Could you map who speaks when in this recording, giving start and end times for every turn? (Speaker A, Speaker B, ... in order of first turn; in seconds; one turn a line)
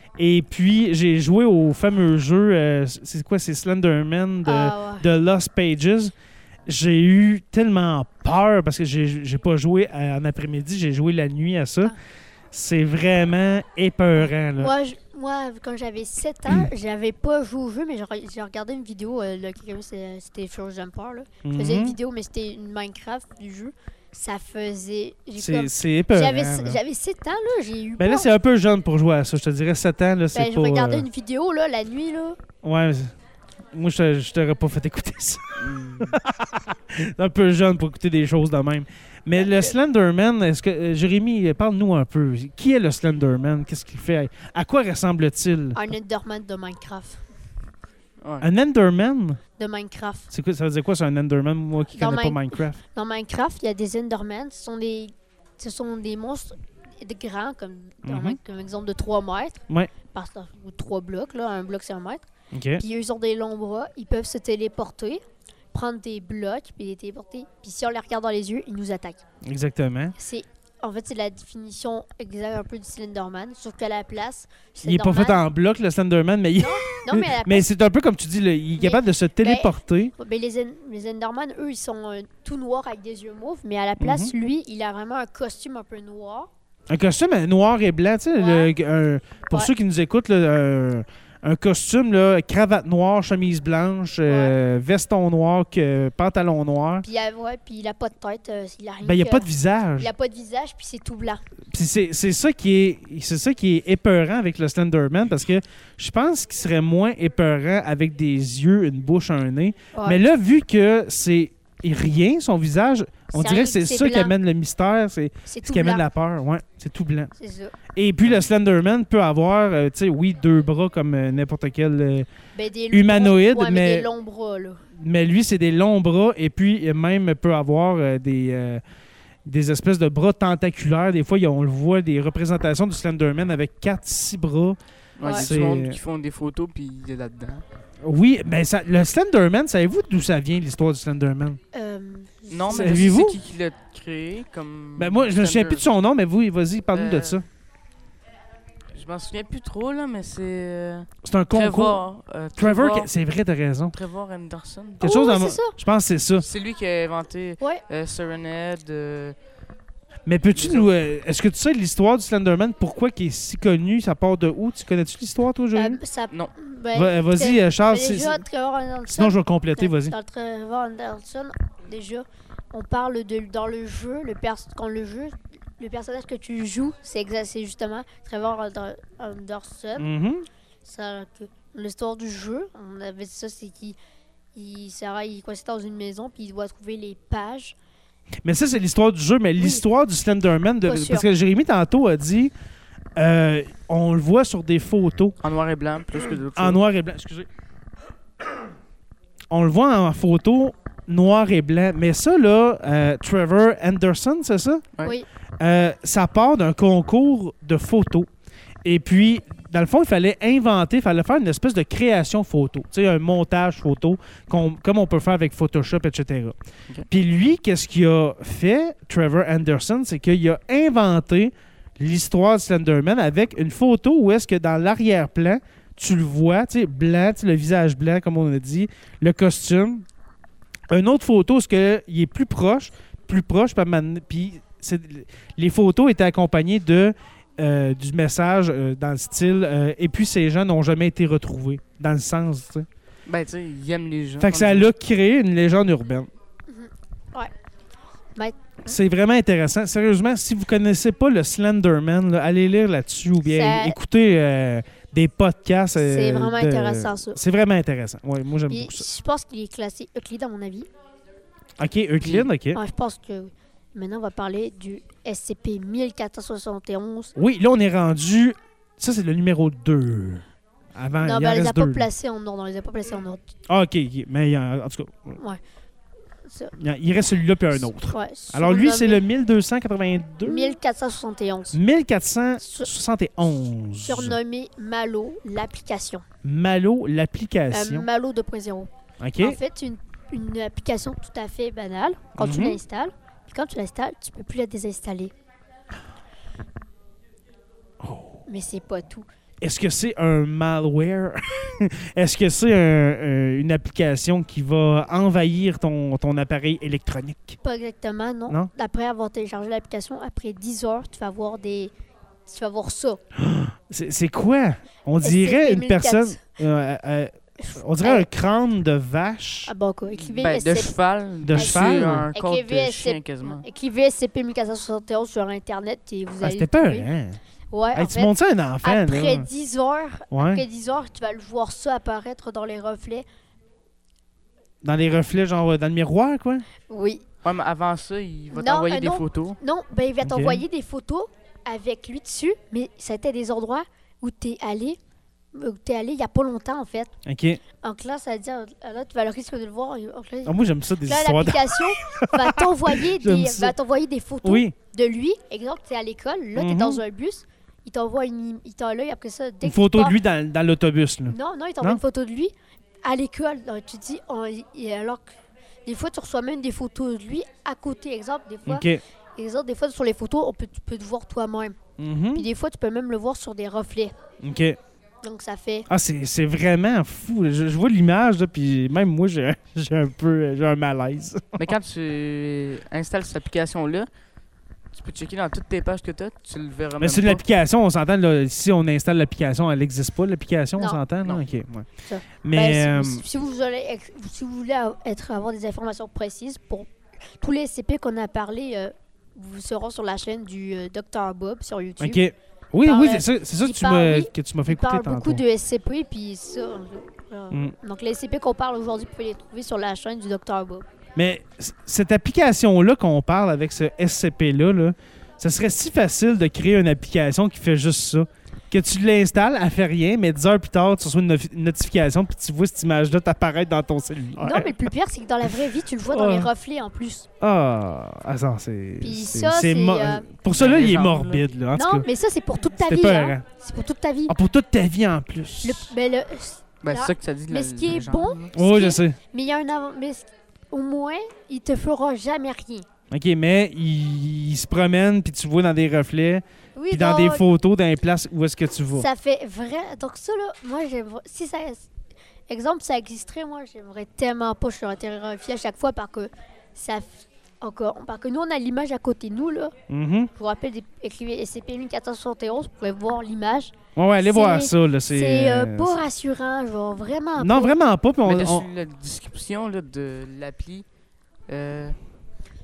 Speaker A: 0.2-6.1
Speaker B: 4.5-5.1
Speaker A: 6.7-11.9
Speaker A: 12.5-14.7
Speaker B: 14.6-28.3
Speaker A: 21.4-22.0
Speaker A: 25.4-26.8
Speaker A: 28.0-31.1
Speaker B: 30.3-32.4
Speaker A: 32.6-33.1
Speaker A: 33.7-46.0
Speaker C: 35.6-36.2
Speaker B: 39.4-39.7
Speaker B: 45.8-47.2
Speaker C: 48.2-48.5
Speaker A: 48.4-49.4
Speaker B: 49.6-50.3
Speaker A: 50.3-52.8
Speaker B: 51.9-62.3
Speaker A: 58.0-58.4
Speaker A: 62.5-62.8
Speaker B: 62.8-65.2
Speaker B: 65.7-69.2
Speaker A: 69.4-70.1
Speaker B: 70.2-75.4
Speaker A: 74.8-80.1
Speaker B: 76.6-77.7
Speaker B: 78.8-86.5
Speaker A: 84.0-84.3
Speaker A: 86.9-97.0
Speaker B: 88.3-88.7
Speaker B: 94.3-94.5
Speaker B: 97.0-101.4
Speaker A: 99.0-100.1
Speaker A: 101.7-117.3
Speaker B: 109.9-110.2
Speaker B: 113.3-114.3
Speaker B: 115.5-116.1
Speaker B: 117.4-117.8
Speaker A: 117.9-122.3
Speaker B: 122.5-124.8
Speaker A: 122.9-124.1
Speaker A: 124.9-128.8
Speaker A: 129.5-136.0
Speaker C: 135.2-137.6
Speaker B: 135.2-135.5
Speaker A: 138.0-141.6
Speaker B: 141.7-143.1
Speaker C: 142.5-145.8
Speaker A: 142.7-143.4
Speaker A: 145.0-147.4
Speaker C: 146.9-147.4
Speaker C: 148.9-153.1
Speaker A: 151.2-152.0
Speaker A: 152.6-154.0
Speaker C: 153.9-155.1
Speaker B: 155.0-155.8
Speaker A: 155.0-156.5
Speaker C: 156.4-159.3
Speaker A: 160.3-166.0
Speaker C: 160.6-160.9
Speaker B: 165.8-180.1
Speaker A: 166.9-168.4
Speaker A: 169.1-170.1
Speaker A: 180.0-180.5
Speaker B: 180.8-184.0
Speaker B: 184.6-187.8
Speaker A: 188.4-192.5
Speaker B: 189.6-189.8
Speaker B: 190.8-191.3
Speaker A: 193.2-195.3
Speaker C: 195.4-196.8
Speaker A: 196.6-197.5
Speaker A: 199.5-204.9
Speaker A: 205.6-208.3
Speaker A: 208.8-216.6
Speaker A: 217.1-230.1
Speaker A: 230.9-242.9
Speaker C: 243.3-244.9
Speaker A: 244.4-246.3
Speaker B: 246.7-247.5
Speaker B: 248.4-248.9
Speaker A: 248.8-259.1
Speaker B: 253.4-254.0
Speaker B: 256.0-257.4
Speaker B: 258.7-260.9
Speaker A: 261.8-262.8
Speaker C: 262.2-262.5
Speaker B: 262.7-267.3
Speaker A: 267.4-272.1
Speaker B: 271.2-273.4
Speaker A: 273.7-275.4
Speaker B: 276.5-276.8
Speaker A: 276.8-280.8
Speaker B: 278.1-279.2
Speaker B: 280.4-281.8
Speaker A: 281.7-284.4
Speaker B: 282.6-282.9
Speaker B: 284.1-286.2
Speaker A: 286.4-288.1
Speaker B: 287.7-295.3
Speaker A: 289.2-289.6
Speaker A: 292.4-292.8
Speaker A: 298.0-298.4
Speaker B: 298.5-299.3
Speaker A: 299.6-307.6
Speaker B: 307.6-311.9
Speaker B: 312.5-313.2
Speaker A: 313.4-319.7
Speaker B: 315.2-316.4
Speaker B: 317.6-318.3
Speaker B: 319.7-320.9
Speaker C: 320.2-323.6
Speaker A: 321.4-322.3
Speaker B: 321.5-327.1
Speaker A: 326.4-327.4
Speaker B: 327.7-333.2
Speaker A: 327.9-329.5
Speaker A: 330.3-330.6
Speaker A: 334.8-336.7
Speaker B: 336.9-337.3
Speaker C: 337.4-339.6
Speaker B: 338.5-345.0
Speaker A: 340.2-340.6
Speaker B: 345.5-347.1
Speaker A: 347.2-347.6
Speaker B: 347.8-360.2
Speaker A: 350.4-353.8
Speaker A: 354.4-354.7
Speaker A: 356.6-357.0
Speaker A: 359.6-362.0
Speaker B: 361.3-362.5
Speaker B: 363.0-371.8
Speaker A: 368.7-369.0
Speaker A: 372.0-372.5
Speaker B: 372.3-374.1
Speaker A: 374.4-374.8
Speaker B: 375.2-375.9
Speaker A: 375.9-381.7
Speaker C: 381.6-384.1
Speaker C: 384.9-387.4
Speaker A: 387.0-391.9
Speaker B: 392.1-402.2
Speaker A: 392.4-393.2
Speaker A: 402.0-405.4
Speaker B: 402.8-410.9
Speaker A: 411.1-424.8
Speaker B: 424.4-427.3
Speaker A: 426.1-426.5
Speaker A: 427.4-432.1
Speaker B: 429.0-430.3
Speaker C: 430.5-431.4
Speaker B: 431.8-434.4
Speaker A: 432.8-433.4
Speaker A: 434.3-435.9
Speaker B: 435.6-442.9
Speaker C: 436.8-438.5
Speaker A: 438.5-439.2
Speaker A: 443.1-449.1
Speaker B: 446.8-447.5
Speaker B: 448.9-451.9
Speaker B: 452.5-459.8
Speaker A: 459.9-460.3
Speaker B: 460.4-467.8
Speaker A: 464.0-466.0
Speaker A: 467.4-468.7
Speaker C: 468.2-470.9
Speaker C: 471.5-472.0